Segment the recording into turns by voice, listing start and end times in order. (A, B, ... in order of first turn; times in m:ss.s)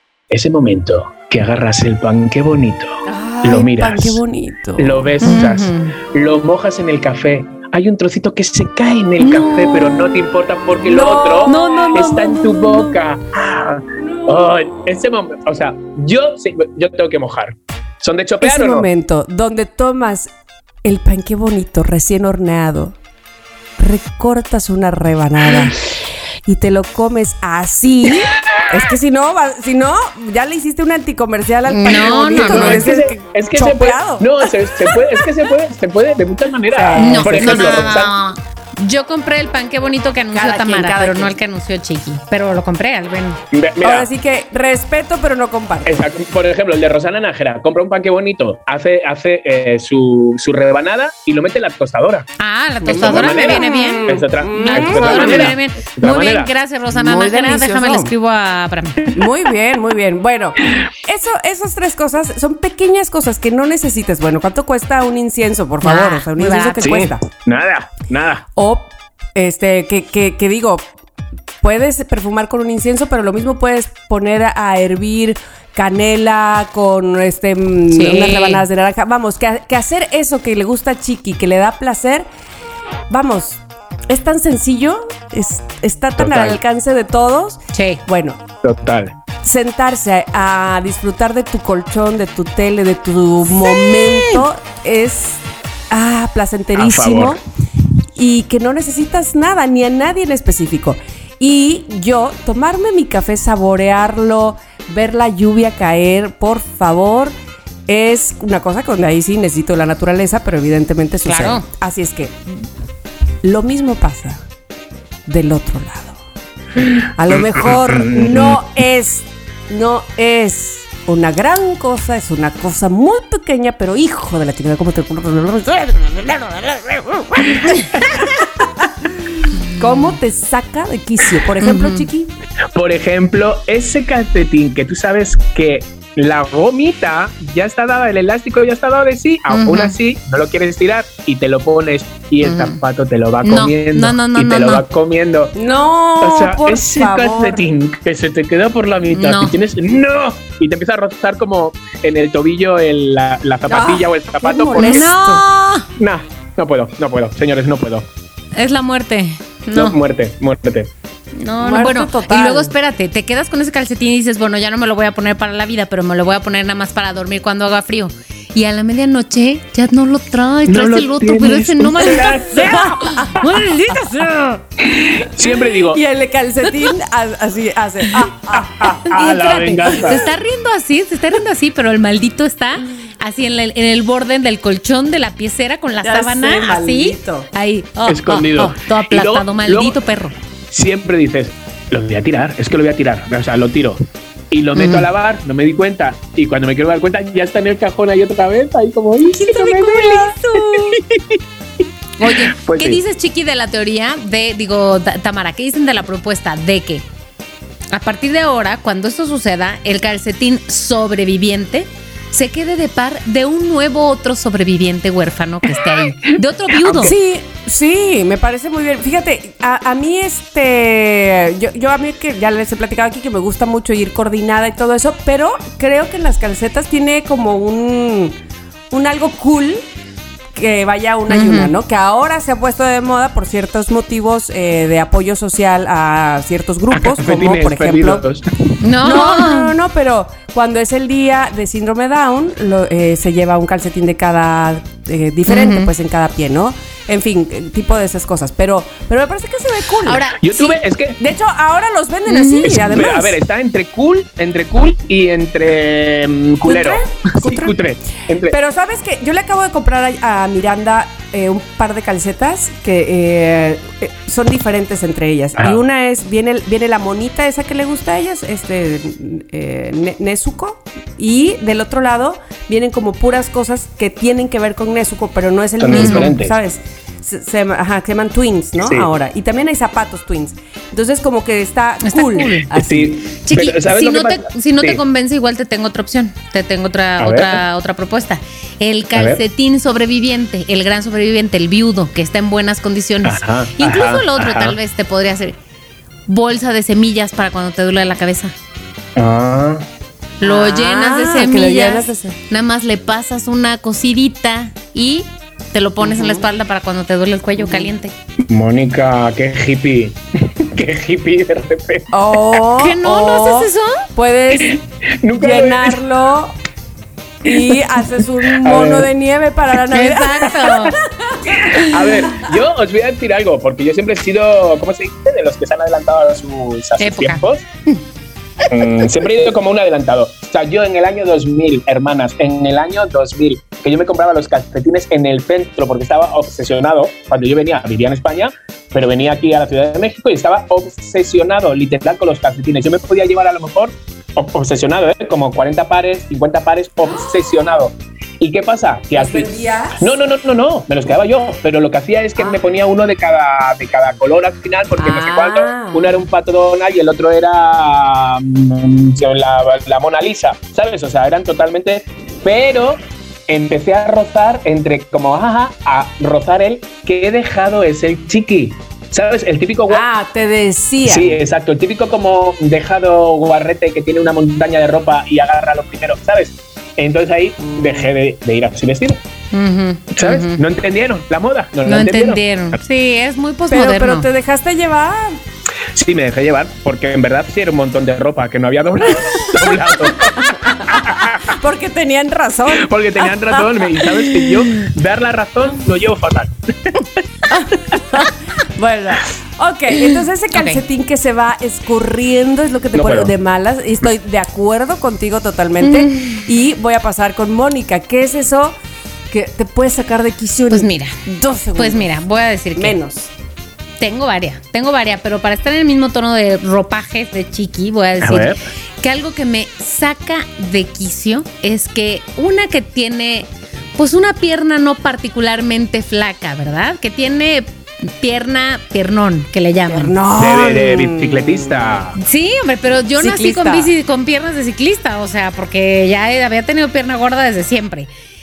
0:00.3-0:04.2 A
0:03.1-0:05.2 B
0:04.8-0:18.9 A
0:05.2-0:05.9 C
0:09.3-0:10.2 B
0:09.4-0:09.7 C
0:10.7-0:13.0 B
0:11.5-0:12.4 C
0:14.0-0:15.0 B
0:18.4-0:20.3 B
0:20.8-0:23.0 B
0:23.8-0:25.8 B
0:26.5-0:35.3 B
0:31.7-0:33.0 C
0:32.3-0:38.2 A
0:36.7-0:38.1 B
0:37.0-0:43.4 C
0:40.3-0:41.4 B
0:43.5-0:44.1 A
0:43.8-0:45.9 B
0:45.9-0:52.3 A
0:52.4-0:54.1 C
0:52.8-0:57.9 A
0:52.9-0:55.5 B
0:54.6-0:59.0 C
0:57.1-0:58.1 B
0:59.2-1:07.3 B
1:05.8-1:06.9 C
1:06.8-1:08.4 A
1:08.6-1:10.9 B
1:11.6-1:22.3 B
1:17.9-1:18.6 C
1:23.1-1:28.4 B
1:26.2-1:26.6 A
1:27.7-1:28.0 C
1:28.6-1:29.1 A
1:29.4-1:37.4 B
1:34.0-1:34.4 C
1:36.8-1:37.4 A
1:38.1-1:47.3 B
1:47.9-1:52.7 B
1:51.2-1:51.6 C
1:53.4-1:54.4 B
1:55.3-1:56.2 B
1:57.2-2:09.2 B
1:57.3-1:58.6 A
2:09.7-2:12.3 B
2:11.6-2:12.0 C
2:12.7-2:25.5 A
2:19.5-2:20.0 C
2:22.4-2:22.8 C
2:23.4-2:24.8 C
2:25.5-2:27.7 B
2:26.2-2:35.1 A
2:29.1-2:29.5 C
2:33.7-2:35.4 B
2:34.8-2:35.9 C
2:36.0-2:38.1 A
2:38.6-2:40.0 C
2:39.7-2:40.9 A
2:41.4-2:54.6 C
2:41.6-2:42.7 B
2:50.7-2:53.5 A
2:52.5-2:52.9 B
2:54.8-2:56.0 A
2:55.8-2:59.0 B
2:58.4-3:00.2 A
2:59.1-3:10.3 C
3:06.0-3:07.5 B
3:08.1-3:10.0 A
3:10.7-3:21.4 A
3:14.8-3:15.1 C
3:19.2-3:21.0 C
3:22.2-3:27.0 C
3:22.2-3:23.0 A
3:27.9-3:37.1 C
3:36.8-3:37.1 A
3:37.0-3:48.4 B
3:48.9-3:49.8 B
3:50.5-3:58.2 B
3:51.3-3:51.7 C
3:56.9-3:58.4 A
3:58.8-3:59.7 C
3:59.0-4:10.2 B
4:05.5-4:05.9 C
4:10.1-4:10.8 C
4:10.4-4:11.2 A
4:11.2-4:13.4 B
4:12.3-4:12.9 C
4:12.6-4:18.6 A
4:16.6-4:17.8 B
4:18.5-4:43.2 B
4:35.8-4:36.5 A
4:35.9-4:36.3 C
4:38.8-4:39.1 A
4:42.0-4:42.7 C
4:42.7-4:45.0 A
4:43.4-4:55.6 C
4:47.2-4:47.6 A
4:49.2-4:49.4 A
4:53.2-4:54.8 A
4:56.3-4:58.5 C
4:59.2-4:59.8 A
5:00.4-5:08.1 C
5:00.4-5:02.4 B
5:06.0-5:06.5 B
5:07.6-5:07.9 B
5:08.5-5:12.1 A
5:12.1-5:14.8 B
5:12.8-5:14.0 C
5:14.6-5:16.0 A
5:15.4-5:16.6 B
5:17.4-5:22.4 B
5:18.5-5:19.1 A
5:19.9-5:21.0 C
5:21.5-5:27.7 A
5:27.0-5:27.4 C
5:28.7-6:10.0 A
5:47.1-5:47.4 B
5:49.2-5:50.1 B
5:55.0-5:56.2 B
6:09.9-6:11.4 B
6:11.1-6:19.2 A
6:17.6-6:18.1 B
6:19.5-6:20.6 C
6:20.1-6:22.8 A
6:21.9-6:24.3 C
6:23.7-6:25.4 B
6:26.0-6:31.6 A
6:29.5-6:34.7 B
6:32.7-6:37.1 A
6:37.5-6:48.8 B
6:40.5-6:40.8 C
6:42.9-6:43.3 A
6:45.8-6:46.4 C
6:49.3-6:52.1 B
6:50.7-6:51.2 C
6:51.8-6:53.0 C
6:52.8-6:53.3 B
6:54.0-7:10.1 C
6:58.2-6:58.6 A
7:09.9-7:12.0 B
7:10.4-7:12.2 A
7:12.2-7:18.1 C
7:13.2-7:13.9 B